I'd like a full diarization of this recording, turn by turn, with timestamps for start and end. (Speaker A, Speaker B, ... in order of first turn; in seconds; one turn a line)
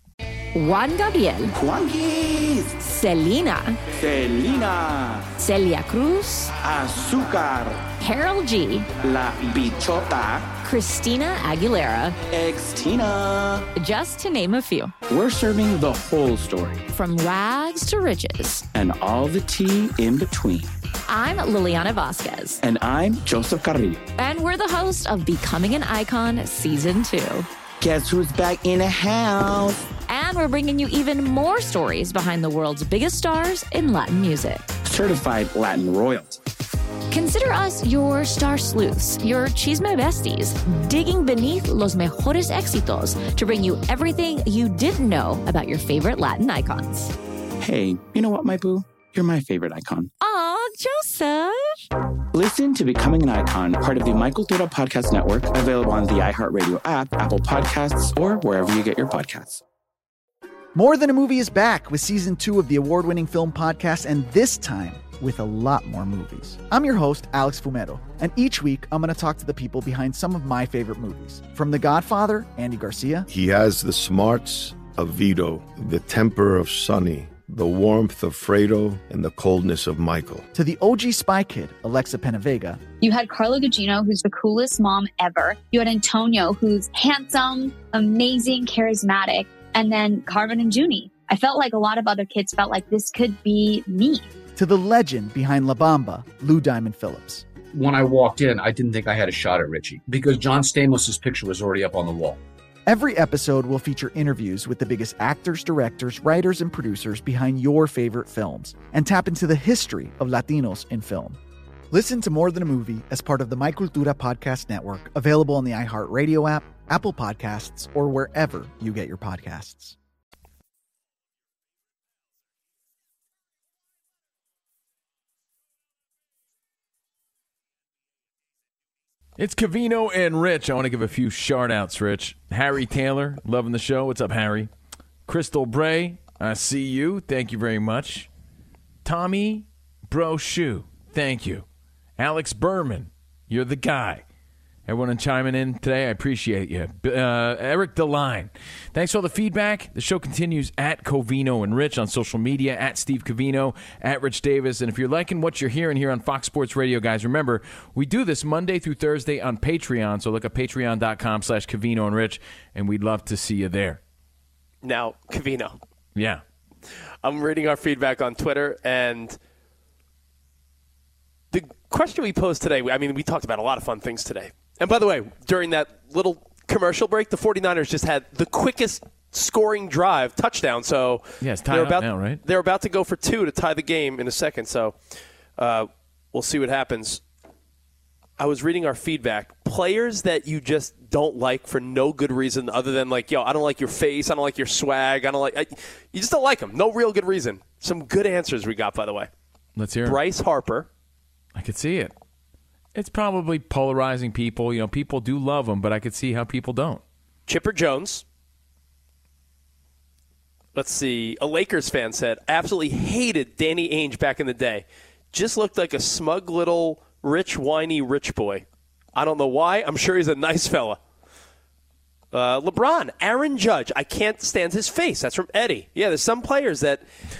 Speaker A: 0.5-1.6
Speaker B: 1.6-2.8
Speaker A: 2.8-3.8
Speaker B: 3.9-5.3
Speaker A: 5.4-6.5
Speaker B: 6.6-7.9
Speaker A: 8.0-8.9
Speaker B: 8.9-10.5
Speaker A: 10.6-12.2
Speaker B: 12.3-13.7
Speaker A: 13.8-14.9
Speaker B: 15.1-16.8
Speaker A: 16.9-18.6
Speaker B: 18.7-20.7
Speaker A: 21.1-22.6
Speaker B: 22.6-24.0
Speaker A: 24.2-27.5
Speaker B: 27.8-29.9
Speaker A: 30.1-34.7
Speaker B: 34.8-36.4
Speaker A: 37.1-47.1
Speaker B: 47.6-50.1
Speaker A: 50.2-51.8
Speaker B: 52.3-59.6
Speaker C: 60.8-73.3
Speaker D: 73.3-80.5
Speaker C: 80.5-82.8
Speaker E: 83.0-94.3
Speaker C: 94.6-97.5
Speaker F: 97.7-102.4
Speaker C: 102.9-111.4
Speaker C: 111.9-120.0
Speaker G: 129.4-134.7
Speaker G: 135.3-138.3
Speaker G: 139.1-141.7
Speaker G: 142.2-144.2
Speaker G: 144.9-164.0
Speaker H: 164.8-165.8
Speaker G: 166.2-166.4
Speaker H: 167.2-169.4
Speaker H: 171.5-185.0
Speaker G: 181.4-182.4
Speaker H: 185.6-187.2
Speaker H: 188.4-199.3
Speaker G: 199.8-200.2
Speaker H: 200.1-200.9
Speaker G: 201.6-202.1
Speaker G: 202.9-207.0
Speaker H: 207.5-208.2
Speaker H: 210.8-221.0
Speaker H: 222.3-227.1